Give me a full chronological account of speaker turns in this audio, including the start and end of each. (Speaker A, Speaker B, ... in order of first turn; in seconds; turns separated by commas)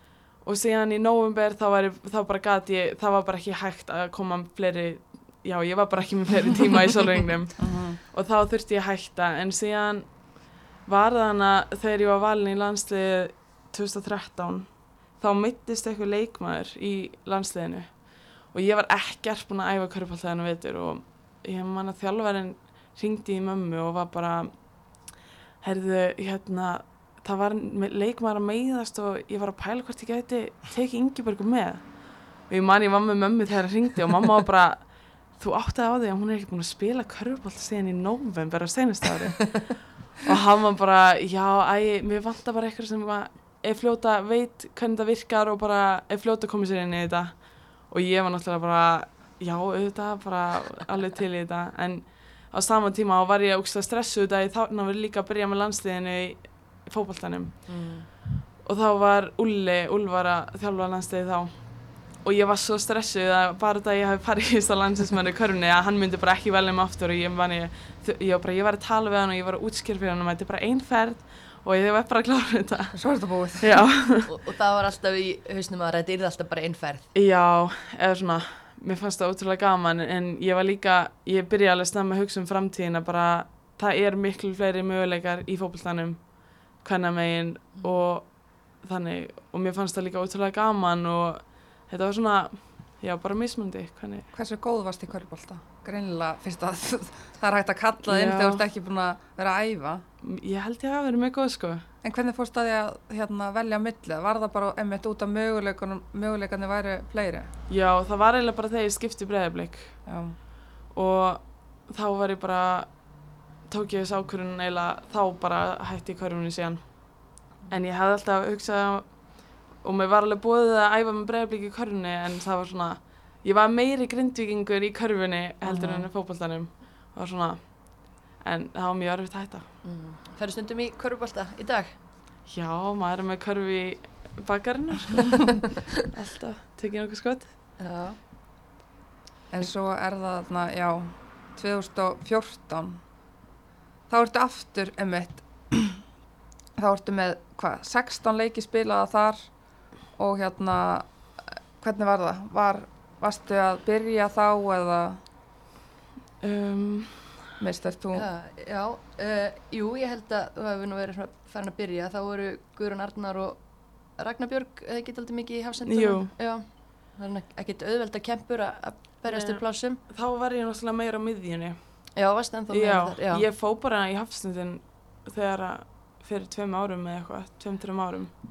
Speaker A: 0.4-73.0, Speaker B: 7.6-8.0, Speaker C: 57.7-58.1, Speaker B: 73.0-73.7, Speaker A: 73.6-74.3, Speaker C: 74.2-77.1, Speaker A: 77.1-94.3, Speaker B: 94.3-100.0, Speaker A: 98.1-98.6, Speaker A: 100.2-101.9, Speaker B: 102.0-107.5, Speaker A: 107.7-110.0, Speaker B: 110.1-110.4, Speaker A: 110.9-113.1, Speaker A: 113.7-129.7, Speaker B: 125.7-126.1, Speaker C: 129.8-132.0, Speaker A: 132.5-137.6, Speaker C: 137.8-138.2, Speaker B: 139.5-143.0, Speaker B: 144.1-146.0, Speaker B: 146.8-155.2, Speaker A: 156.4-157.5, Speaker B: 157.6-158.3, Speaker C: 158.1-170.0, Speaker A: 165.9-166.3, Speaker A: 169.3-172.2, Speaker C: 172.2-173.5, Speaker A: 172.7-178.3